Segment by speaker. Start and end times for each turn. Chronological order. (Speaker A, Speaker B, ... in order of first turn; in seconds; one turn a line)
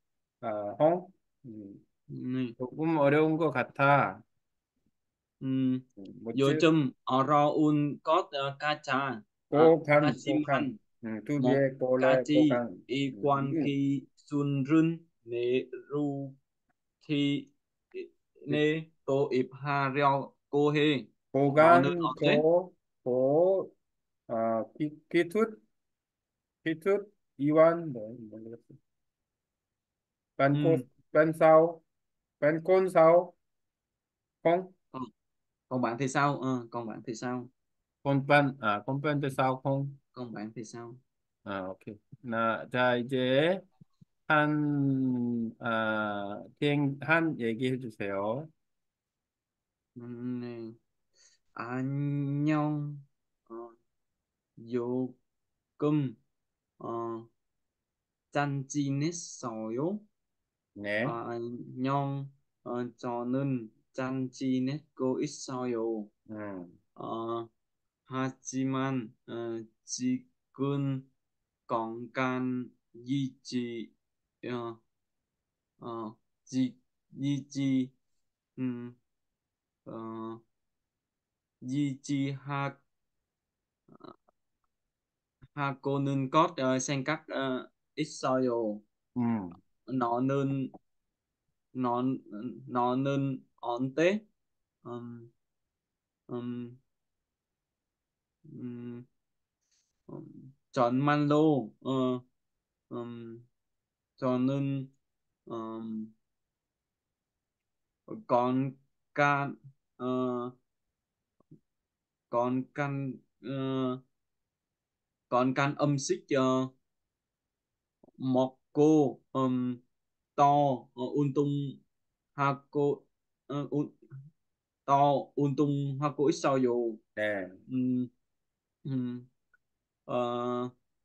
Speaker A: 0.4-1.8
Speaker B: 2.1-2.5
Speaker A: 2.6-4.2
Speaker B: 5.4-10.8
Speaker A: 6.0-6.7
Speaker A: 9.5-13.7
Speaker B: 11.4-16.4
Speaker B: 17.0-22.4
Speaker A: 21.3-23.7
Speaker A: 24.3-25.6
Speaker A: 26.6-28.8
Speaker A: 30.4-31.8
Speaker B: 30.5-30.9
Speaker A: 32.4-33.4
Speaker A: 34.4-34.7
Speaker B: 35.7-37.5
Speaker A: 38.0-40.0
Speaker B: 40.1-41.0
Speaker A: 41.5-43.6
Speaker A: 44.3-48.5
Speaker B: 50.0-50.8
Speaker B: 51.5-53.8
Speaker B: 54.6-55.2
Speaker B: 55.8-56.2
Speaker B: 56.8-57.3
Speaker B: 58.3-60.0
Speaker A: 60.8-61.2
Speaker B: 61.0-66.1
Speaker A: 66.3-66.8
Speaker B: 67.0-67.5
Speaker B: 68.1-71.1
Speaker B: 71.7-73.9
Speaker B: 74.4-74.8
Speaker B: 75.8-77.9
Speaker B: 78.6-79.0
Speaker B: 79.9-80.4
Speaker B: 81.6-82.8
Speaker B: 85.6-88.8
Speaker A: 89.2-89.6
Speaker B: 89.9-90.7
Speaker B: 91.7-94.2
Speaker B: 94.8-95.3
Speaker B: 96.3-96.8
Speaker B: 98.5-99.1
Speaker B: 100.1-102.2
Speaker B: 102.9-103.5
Speaker B: 104.2-104.9
Speaker B: 105.5-106.1
Speaker B: 108.1-110.6
Speaker B: 112.3-114.0
Speaker B: 115.3-116.7
Speaker B: 118.2-119.8
Speaker B: 120.4-121.8
Speaker B: 122.4-124.0
Speaker B: 124.9-127.0
Speaker A: 127.2-127.6
Speaker B: 127.7-128.1
Speaker B: 128.8-129.3
Speaker B: 130.1-130.7